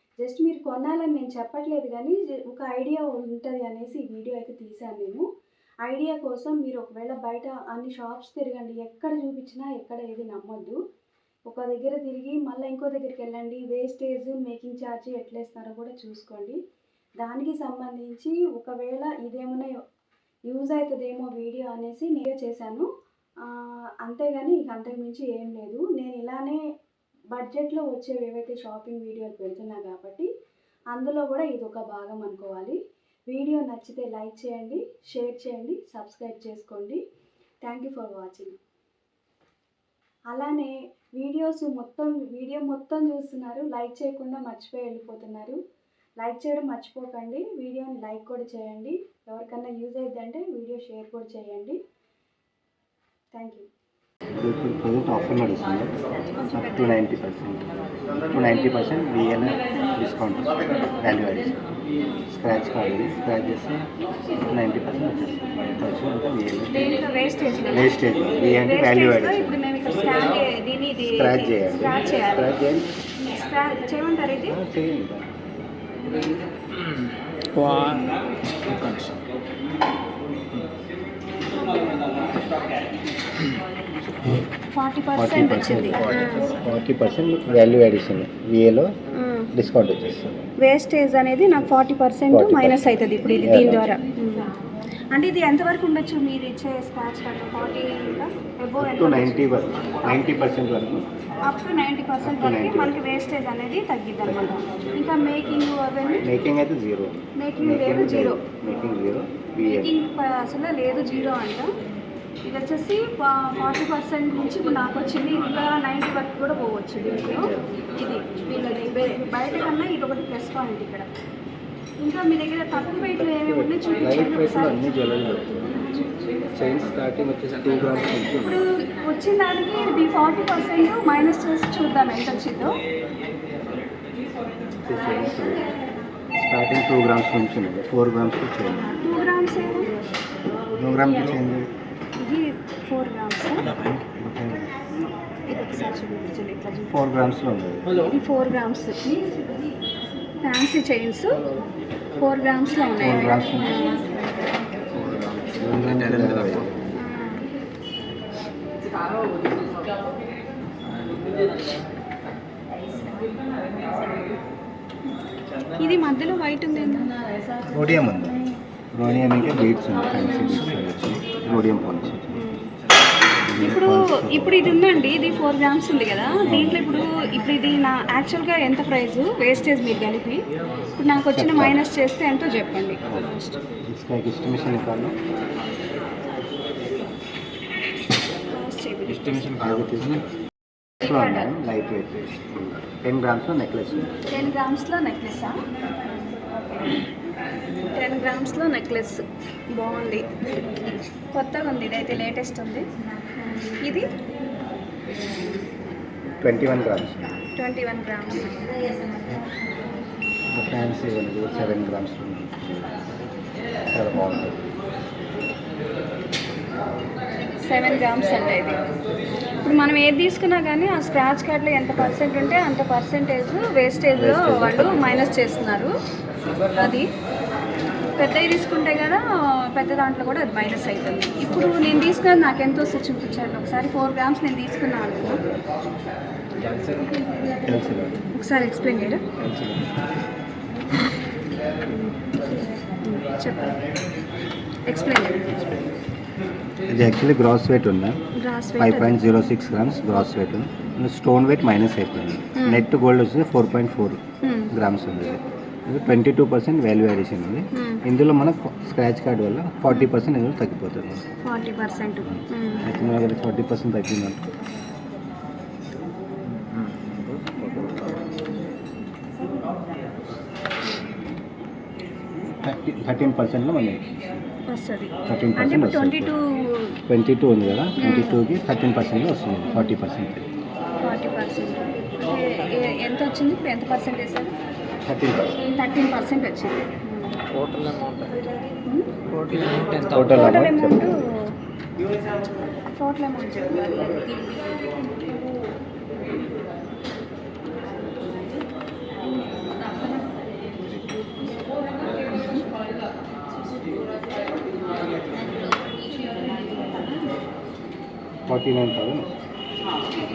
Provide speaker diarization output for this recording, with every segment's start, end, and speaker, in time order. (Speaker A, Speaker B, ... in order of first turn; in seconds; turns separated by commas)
Speaker A: 0.2-5.2, Speaker A: 5.9-10.8, Speaker A: 11.5-16.6, Speaker A: 17.2-19.7, Speaker A: 20.5-22.9, Speaker A: 24.0-26.6, Speaker A: 27.3-30.3, Speaker A: 30.9-32.8, Speaker A: 33.3-37.0, Speaker A: 37.6-38.6, Speaker A: 40.3-45.6, Speaker A: 46.2-51.8, Speaker A: 53.3-53.7, Speaker B: 54.4-55.9, Speaker A: 56.4-57.0, Speaker B: 56.5-57.7, Speaker B: 58.3-61.6, Speaker B: 62.3-63.9, Speaker B: 64.5-67.0, Speaker A: 66.7-72.5, Speaker B: 67.7-69.6, Speaker B: 71.1-72.9, Speaker A: 73.3-74.6, Speaker B: 74.4-75.3, Speaker C: 77.6-78.0, Speaker C: 78.6-79.2, Speaker A: 81.6-82.0, Speaker A: 84.7-86.6, Speaker B: 85.2-88.9, Speaker A: 89.2-89.5, Speaker B: 89.5-90.4, Speaker A: 90.6-94.5, Speaker B: 92.3-93.9, Speaker A: 95.1-99.4, Speaker B: 98.8-101.1, Speaker A: 100.0-100.3, Speaker A: 101.5-106.2, Speaker B: 102.2-103.0, Speaker B: 104.2-104.6, Speaker B: 106.2-110.0, Speaker A: 107.4-108.4, Speaker A: 109.7-111.7, Speaker A: 112.4-121.1, Speaker B: 117.3-117.6, Speaker A: 122.0-124.9, Speaker B: 123.2-125.7, Speaker A: 125.4-126.1, Speaker B: 126.6-128.6, Speaker A: 128.4-132.7, Speaker B: 134.8-135.7, Speaker B: 136.4-138.9, Speaker A: 139.0-139.9, Speaker B: 140.8-141.7, Speaker A: 142.2-143.7, Speaker C: 143.5-144.0, Speaker B: 144.0-144.7, Speaker A: 145.5-147.0, Speaker B: 146.9-148.0, Speaker A: 148.0-149.2, Speaker A: 150.4-151.4, Speaker A: 152.2-154.1, Speaker B: 153.0-153.9, Speaker C: 154.9-156.7, Speaker B: 155.6-156.7, Speaker A: 157.0-157.4, Speaker C: 160.9-161.2, Speaker A: 165.8-167.1, Speaker B: 167.7-168.4, Speaker B: 168.9-172.3, Speaker A: 172.3-172.7, Speaker B: 173.5-174.7, Speaker A: 173.6-180.4, Speaker B: 176.4-177.0, Speaker A: 181.0-183.6, Speaker B: 181.3-181.8, Speaker B: 183.9-185.2, Speaker A: 188.5-189.4, Speaker C: 189.1-190.2, Speaker B: 189.6-190.2, Speaker B: 191.0-194.1, Speaker A: 191.0-191.4, Speaker A: 194.3-195.6, Speaker A: 197.9-199.2, Speaker A: 199.8-200.3, Speaker A: 201.3-202.9, Speaker B: 206.4-207.4, Speaker A: 207.6-208.6, Speaker B: 210.5-213.0, Speaker B: 213.9-214.7, Speaker A: 217.6-218.8, Speaker A: 219.6-225.9, Speaker B: 221.9-222.3, Speaker B: 224.2-225.3, Speaker A: 226.7-227.1, Speaker A: 228.2-229.2, Speaker A: 229.7-235.4, Speaker B: 235.2-235.7, Speaker C: 236.6-237.2, Speaker B: 237.6-238.2, Speaker A: 238.3-239.2, Speaker C: 239.4-239.8, Speaker A: 241.9-243.8, Speaker A: 244.9-245.5, Speaker B: 245.6-245.9, Speaker B: 246.9-248.2, Speaker A: 248.4-249.2, Speaker B: 248.8-261.2, Speaker A: 252.6-252.9, Speaker A: 254.4-254.7, Speaker A: 257.7-258.0, Speaker A: 261.4-262.9, Speaker B: 262.3-264.4, Speaker C: 266.4-268.3, Speaker B: 272.6-274.4, Speaker A: 274.7-276.9, Speaker B: 275.3-276.3, Speaker B: 277.1-280.5, Speaker A: 278.0-278.4, Speaker A: 279.7-279.9, Speaker A: 281.0-284.5, Speaker B: 285.0-285.6, Speaker A: 285.8-287.4, Speaker C: 287.5-288.4, Speaker C: 289.3-290.3, Speaker B: 290.1-291.2, Speaker A: 290.3-291.3, Speaker A: 293.0-294.5, Speaker B: 308.5-309.3